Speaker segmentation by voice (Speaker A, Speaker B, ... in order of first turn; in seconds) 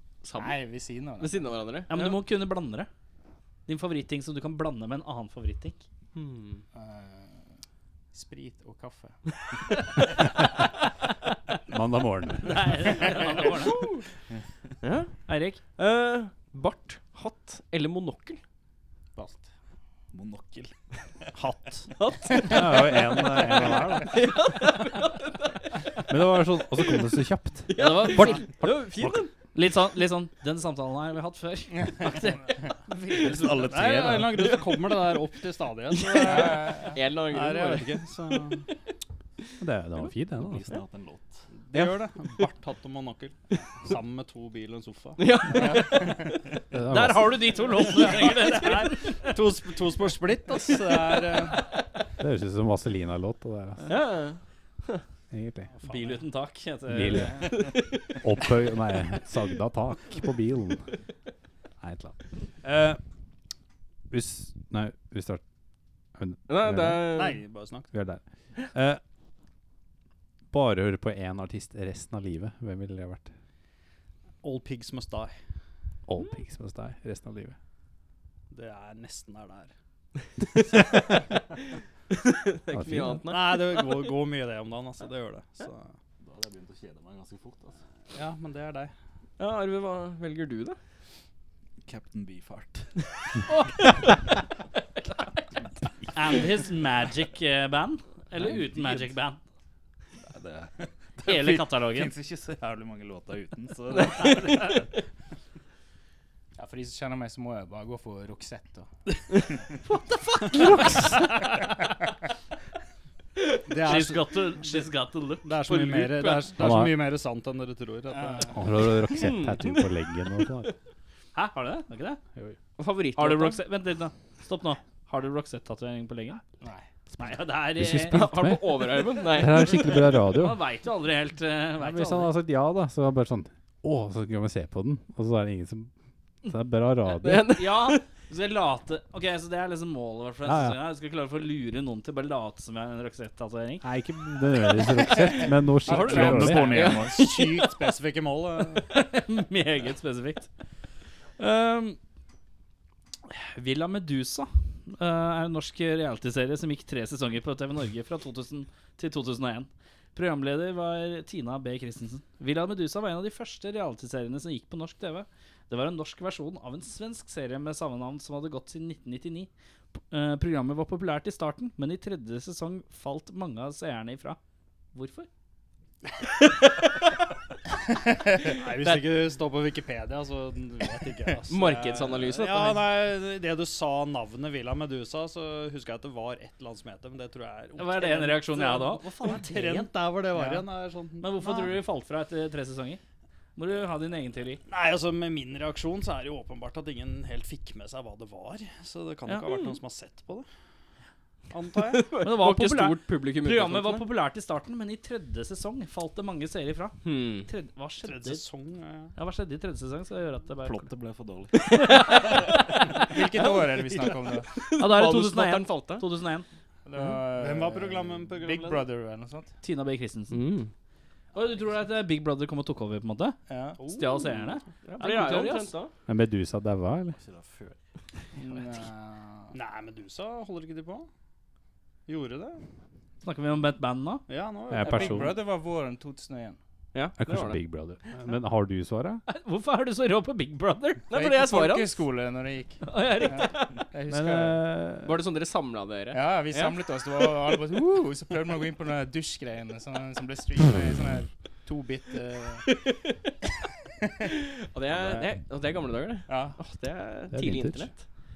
Speaker A: 0.2-0.6, 1.2-2.2, 6.2-6.6, 13.7-14.0, 14.8-18.4, 22.0-25.8, 27.7-29.3, 35.9-38.0, 45.2-46.3, 53.9-55.0, 57.5-58.0, 66.5-67.4, 82.2-83.9, 89.4-90.8, 119.0-119.9, 122.8-123.6, 128.1-129.9, 137.2-138.0, 145.9-147.4, 181.5-182.9, 201.9-204.1, 207.0-207.5, 211.7-212.5, 213.1-216.0, 220.3-220.7, 224.8-225.9, 236.9-237.6, 241.1-242.0, 245.0-246.8, 252.7-253.1, 254.6-258.0
Speaker B: 0.3-1.5, 6.7-7.5, 8.1-9.2, 19.2-19.5, 36.2-37.0, 45.5-46.3, 106.6-108.9, 118.1-118.5, 126.6-126.9, 190.3-190.6, 212.9-214.5, 216.8-219.6, 223.5-223.9, 228.4-229.6, 234.8-236.6, 241.1-244.6, 246.1-252.7, 256.3-256.6
Speaker C: 1.9-2.9, 3.7-5.8, 12.4-13.9, 15.3-15.6, 27.8-28.5, 29.5-33.5, 46.9-49.4, 55.8-57.5, 96.1-99.4, 101.2-102.1, 109.9-111.3, 113.8-116.5, 121.3-122.2, 123.2-126.4, 127.2-128.2, 130.2-132.3, 137.5-143.9, 145.9-146.5, 148.9-150.5, 151.4-152.0, 153.3-174.4, 174.9-175.3, 187.8-189.9, 191.2-193.0, 193.6-194.6, 202.2-208.4, 209.2-210.9, 211.8-212.6, 214.8-216.5, 219.6-220.4, 221.3-225.7, 233.2-234.2, 239.3-241.1, 242.8-243.7
Speaker D: 11.7-12.9, 22.5-24.2, 26.1-29.2, 39.6-40.7, 46.7-47.5, 52.2-53.9, 55.3-55.7, 56.9-60.9, 61.8-63.0, 64.1-65.4, 66.2-67.0, 67.9-69.0, 70.5-73.3, 76.1-77.6, 82.7-83.2, 116.6-117.0, 118.5-120.7, 127.7-130.6, 131.8-135.9, 136.4-137.5, 140.4-140.8, 143.8-146.8, 226.1-227.2, 234.7-235.3, 237.2-239.2, 244.1-245.1, 257.3-257.9
Speaker E: 20.1-20.7, 33.2-34.6, 40.4-41.5, 86.2-87.8, 91.8-93.1, 98.3-99.2, 100.2-104.9, 145.9-147.3, 210.6-212.1, 227.1-227.8
Speaker F: 21.4-21.9, 33.6-38.7, 41.6-45.9, 48.0-51.7, 55.8-56.2, 67.1-67.9, 74.4-75.4, 78.5-79.7, 83.3-85.9, 88.1-88.9, 113.7-114.9, 115.4-118.6, 146.0-148.9, 178.4-191.8, 194.7-200.5, 201.5-202.1, 208.0-209.1, 217.3-218.9, 223.9-224.3, 229.5-231.1, 232.1-232.6, 234.3-235.3